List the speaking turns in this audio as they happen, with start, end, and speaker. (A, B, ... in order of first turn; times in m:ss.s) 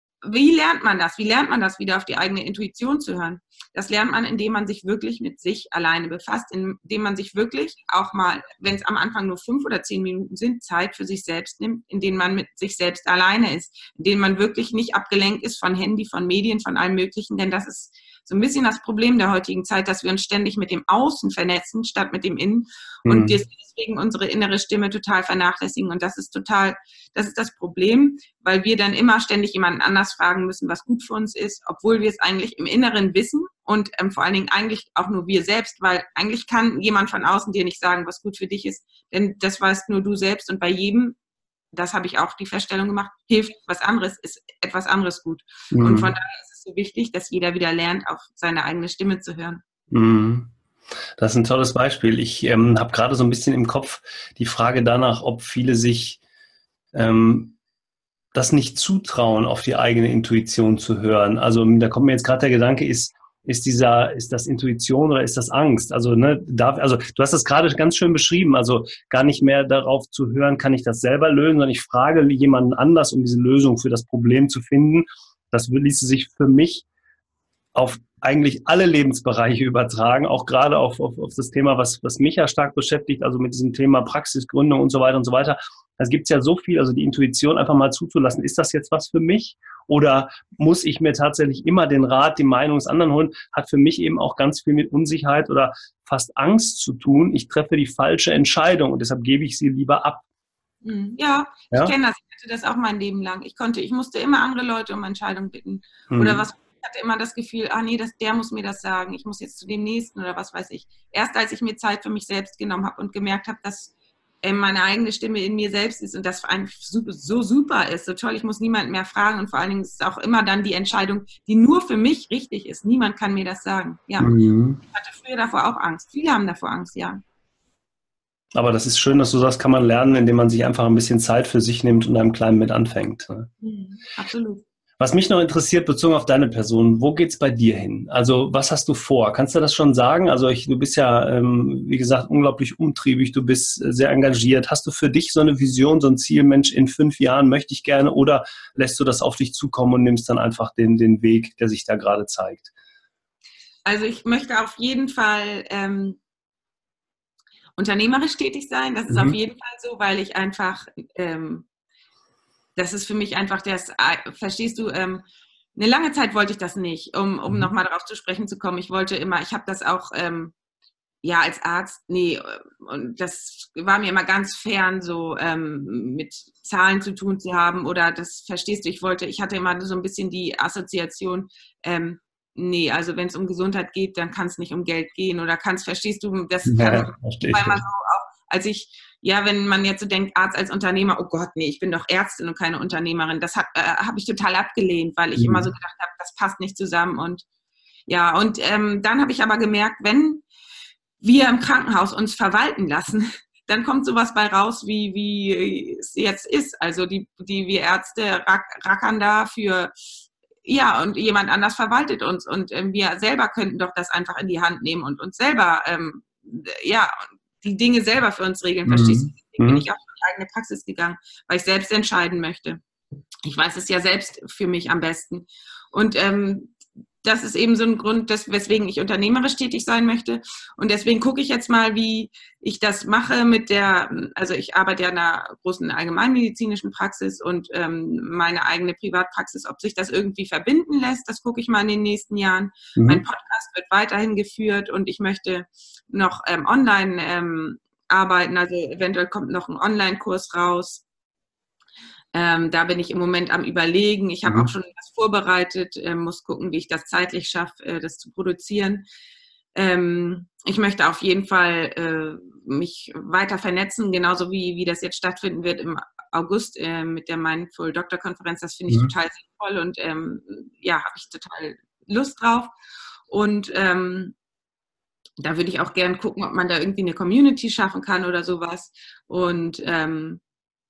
0:00.2-0:41.2 A
0:23.0-0:23.4 B
0:41.7-0:49.6 A
0:45.7-0:46.1 B
0:49.9-0:50.5 B
0:51.2-0:56.2 B
0:56.9-0:57.6 B
0:58.3-1:16.9 B
1:17.8-1:40.2 B
1:40.8-2:04.3 A
1:46.1-1:46.4 B
2:04.2-2:04.8 B
2:04.9-2:07.2 A
2:08.6-2:13.5 B
2:13.6-2:14.6 A
2:15.0-2:32.7 B
2:33.9-2:36.2 A
2:37.8-2:41.7 A
2:39.1-2:39.4 B
2:42.8-2:45.2 A
2:45.8-2:50.5 A
2:51.2-3:17.4 A
3:06.7-3:07.8 B
3:15.4-3:15.7 B
3:18.1-3:20.4 A
3:21.2-3:29.9 A
3:30.6-3:42.8 A
3:38.9-3:39.9 B
3:43.4-4:11.0 A
4:03.0-4:03.2 B
4:12.3-4:19.1 A
4:14.5-4:14.7 B
4:19.8-4:32.7 A
4:33.3-4:34.4 A
4:35.4-4:40.4 A